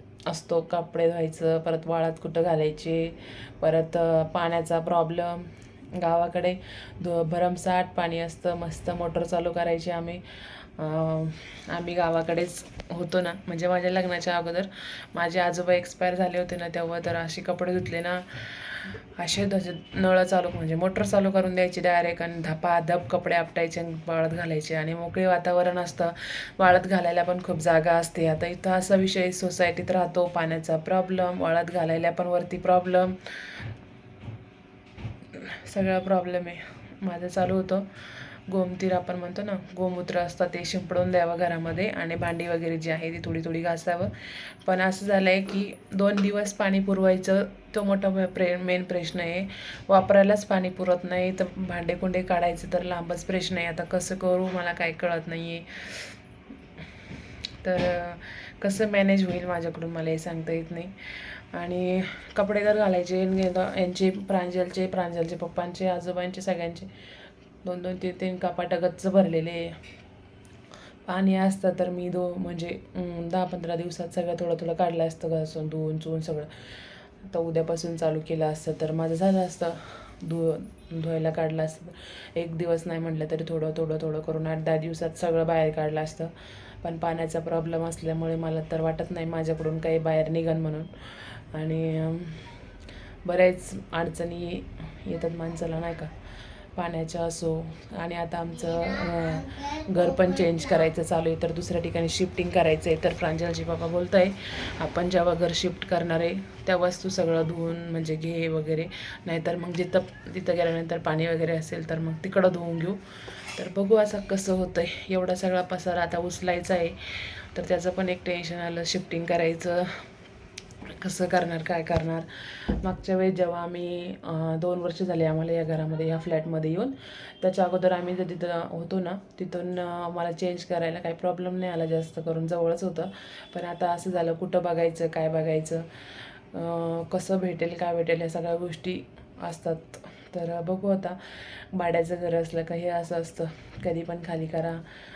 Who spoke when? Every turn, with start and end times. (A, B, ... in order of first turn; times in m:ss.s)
0:00.2-0:33.6 A
0:35.4-0:56.2 A
0:57.6-1:06.9 A
1:07.6-1:09.8 A
1:11.0-1:32.6 A
1:33.2-1:36.1 A
1:36.8-2:00.1 A
2:00.9-2:15.9 A
2:16.5-2:24.8 A